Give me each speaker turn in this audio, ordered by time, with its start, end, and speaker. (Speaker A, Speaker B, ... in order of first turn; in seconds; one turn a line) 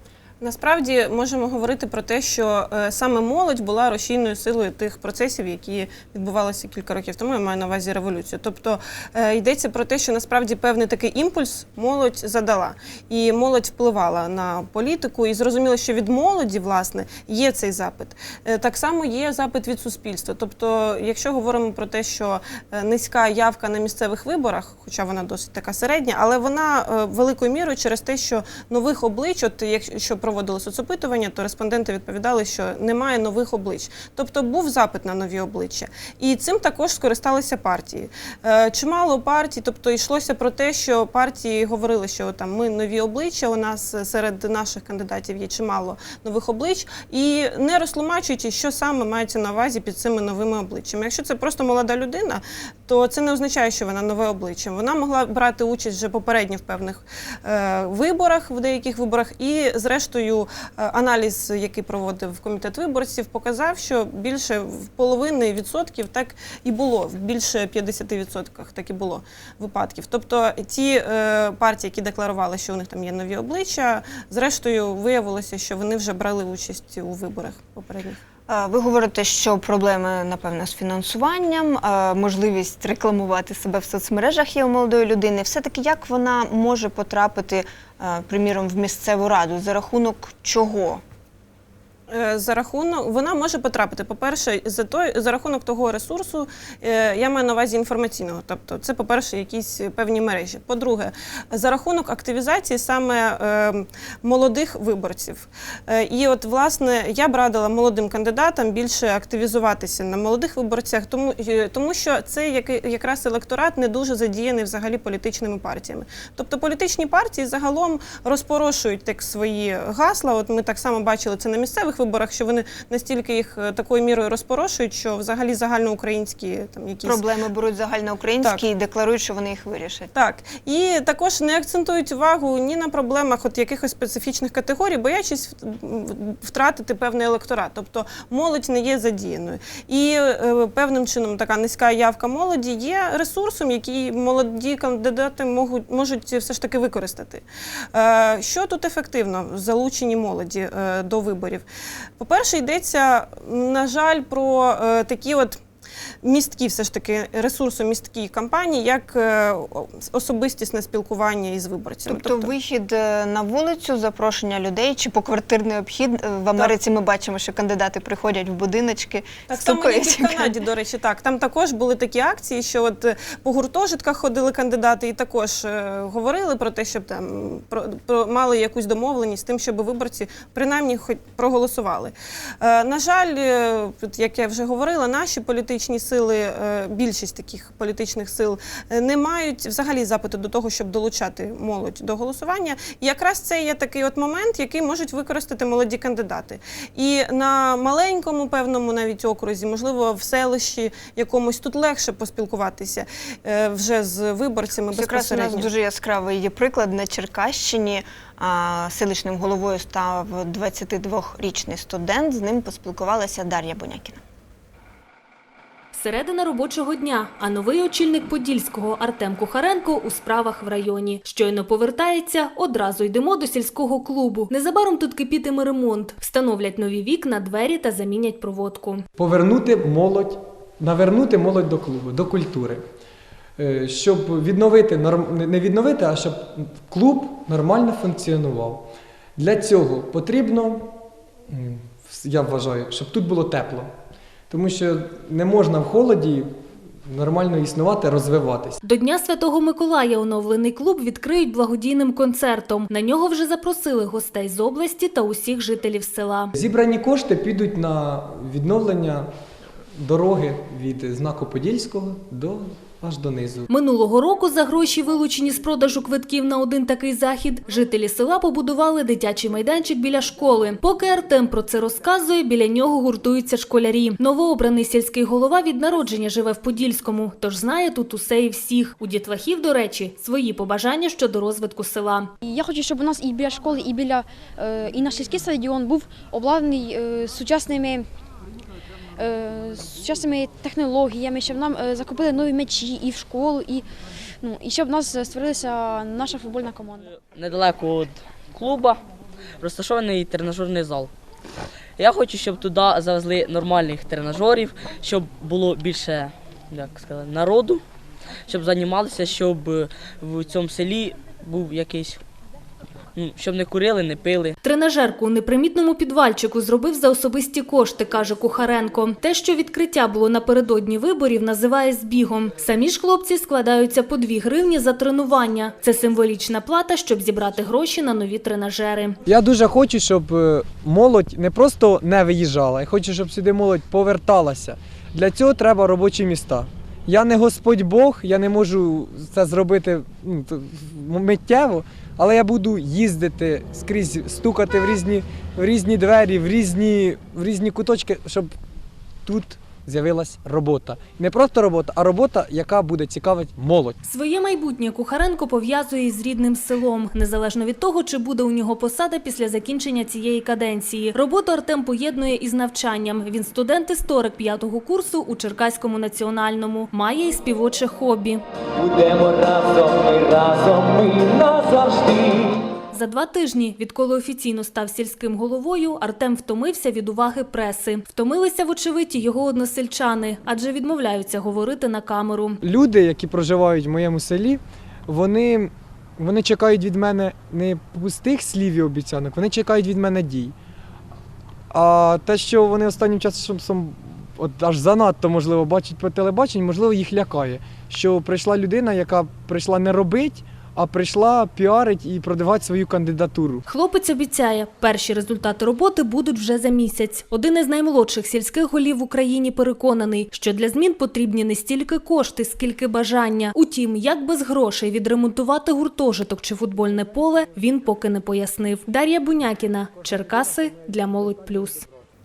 Speaker A: 0.4-78.2
Speaker B: 78.5-91.0
Speaker A: 92.1-127.2
Speaker B: 127.0-130.1
Speaker A: 130.1-151.7
Speaker A: 152.2-155.6
Speaker A: 156.2-162.5
Speaker B: 162.1-170.5
Speaker A: 169.5-205.7
Speaker B: 204.9-214.2
Speaker C: 215.9-229.0
Speaker D: 229.2-232.8
Speaker D: 233.6-241.0
Speaker D: 241.5-243.9
Speaker D: 244.5-246.5
Speaker D: 247.1-248.8
Speaker C: 248.8-256.5
Speaker D: 256.6-259.3
Speaker D: 260.0-263.7
Speaker C: 263.7-282.3
Speaker E: 282.4-288.1
Speaker E: 289.2-293.9
Speaker E: 294.4-297.1
Speaker F: 297.2-299.0
Speaker F: 299.6-301.1
Speaker F: 302.0-307.8
Speaker F: 308.5-312.2
Speaker F: 313.1-314.6
Speaker C: 314.6-329.2
Speaker D: 329.3-348.5
Speaker D: 349.3-354.0
Speaker C: 354.0-368.4
Speaker G: 368.8-372.6
Speaker C: 372.9-382.6
Speaker D: 382.6-390.6
Speaker D: 391.7-403.6
Speaker C: 403.7-421.9